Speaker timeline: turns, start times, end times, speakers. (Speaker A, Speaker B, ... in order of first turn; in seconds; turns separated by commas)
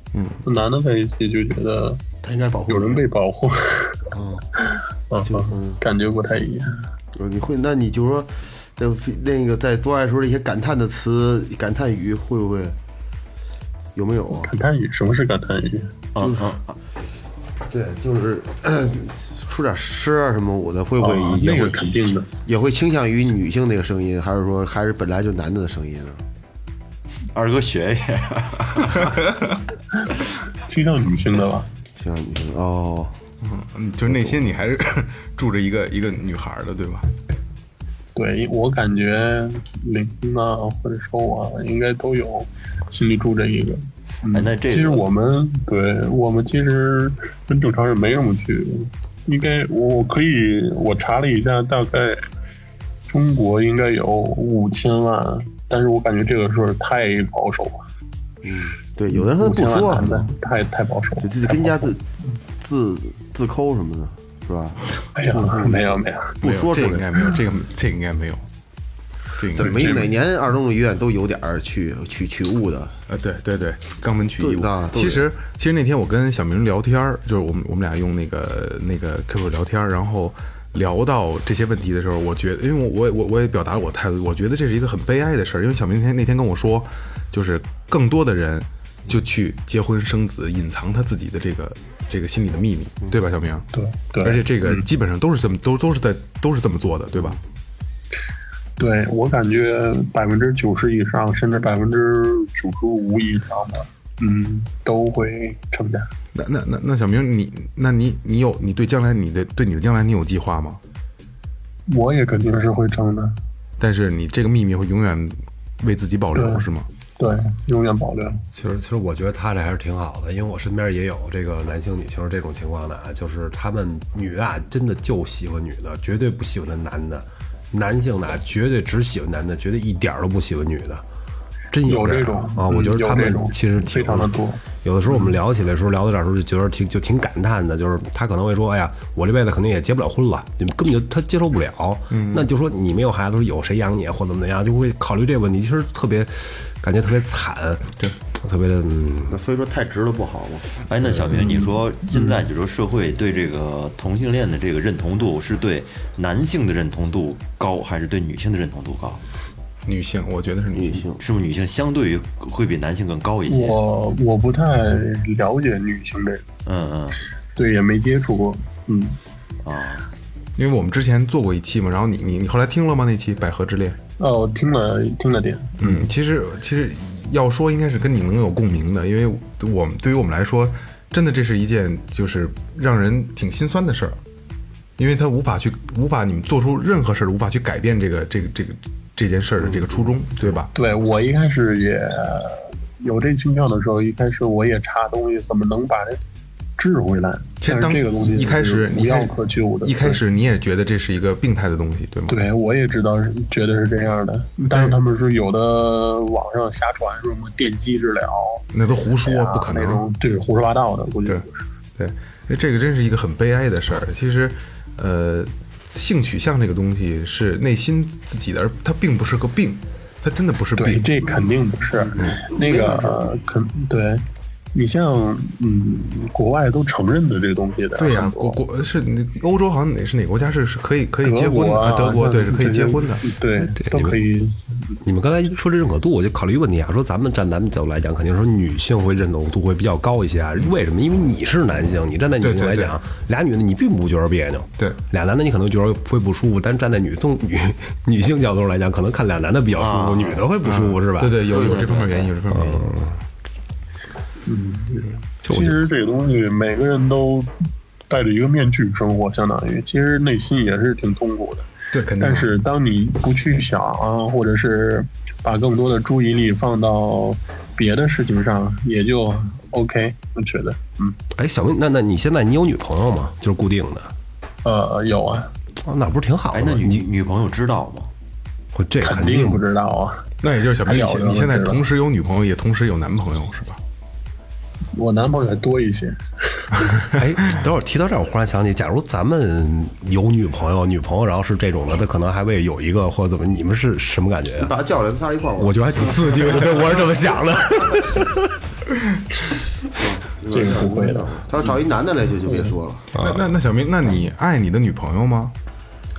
Speaker A: 0.1-0.4, Speaker B: 0.4-2.0, Speaker C: 2.2-3.0, Speaker B: 2.7-6.9, Speaker C: 4.1-4.5, Speaker C: 5.2-5.8, Speaker C: 7.2-12.8, Speaker C: 13.9-14.5, Speaker B: 14.3-15.9, Speaker D: 16.1-16.8, Speaker C: 16.2-16.5, Speaker C: 17.7-21.8, Speaker B: 21.0-22.3, Speaker C: 22.4-26.2, Speaker D: 27.3-29.2, Speaker A: 29.1-29.5, Speaker B: 30.7-31.7, Speaker C: 31.9-33.2, Speaker A: 33.4-37.1, Speaker C: 34.1-34.4, Speaker B: 38.1-52.3, Speaker D: 44.3-45.0, Speaker B: 53.1-57.9, Speaker C: 58.4-60.3, Speaker B: 59.1-62.0, Speaker C: 61.2-62.0, Speaker C: 62.6-65.8, Speaker B: 65.2-66.4, Speaker C: 66.4-67.1, Speaker A: 66.4-68.5, Speaker A: 69.4-70.1, Speaker C: 69.5-73.0, Speaker B: 69.6-70.0, Speaker A: 73.1-93.7, Speaker C: 74.4-75.2, Speaker B: 93.7-94.9, Speaker A: 94.2-97.4, Speaker B: 98.8-106.1, Speaker A: 106.3-110.8, Speaker B: 111.9-113.4, Speaker A: 113.8-116.9, Speaker B: 116.3-116.7, Speaker B: 117.2-118.4, Speaker E: 118.5-131.0, Speaker E: 131.7-149.4, Speaker B: 131.9-134.6, Speaker A: 135.1-135.4, Speaker A: 142.1-142.5, Speaker C: 149.3-151.1, Speaker D: 150.8-159.2, Speaker A: 159.8-161.1, Speaker C: 160.8-161.2, Speaker D: 161.2-163.8, Speaker B: 163.5-166.4, Speaker D: 166.7-167.2, Speaker B: 167.6-169.2, Speaker D: 169.6-170.1, Speaker A: 170.6-174.0, Speaker B: 174.2-176.0, Speaker A: 175.8-184.2, Speaker A: 185.0-190.7, Speaker B: 190.8-196.2, Speaker B: 196.8-200.2, Speaker A: 197.6-202.4, Speaker B: 202.3-208.7, Speaker A: 204.7-205.0, Speaker A: 208.7-210.0, Speaker B: 209.2-211.6, Speaker A: 212.0-221.1, Speaker B: 220.8-228.6, Speaker C: 222.1-223.3, Speaker A: 228.0-233.3, Speaker B: 231.2-235.0, Speaker E: 233.8-234.2, Speaker E: 235.0-251.4, Speaker A: 242.4-243.0, Speaker D: 249.8-250.4, Speaker A: 250.6-252.9, Speaker D: 251.5-252.3, Speaker C: 251.6-252.2, Speaker E: 252.5-253.2, Speaker B: 254.5-257.6, Speaker B: 258.1-271.2, Speaker A: 261.9-262.5, Speaker E: 271.4-274.1, Speaker B: 274.6-275.5, Speaker E: 275.9-277.1, Speaker D: 276.5-278.1, Speaker E: 278.7-279.6, Speaker B: 279.0-280.3, Speaker A: 280.4-283.8, Speaker B: 280.8-281.8, Speaker B: 284.9-286.8, Speaker E: 287.1-294.7, Speaker C: 294.6-296.7, Speaker E: 295.6-298.6, Speaker C: 300.0-303.1, Speaker B: 300.5-301.4, Speaker B: 302.5-302.8, Speaker A: 303.1-305.5, Speaker E: 303.2-303.5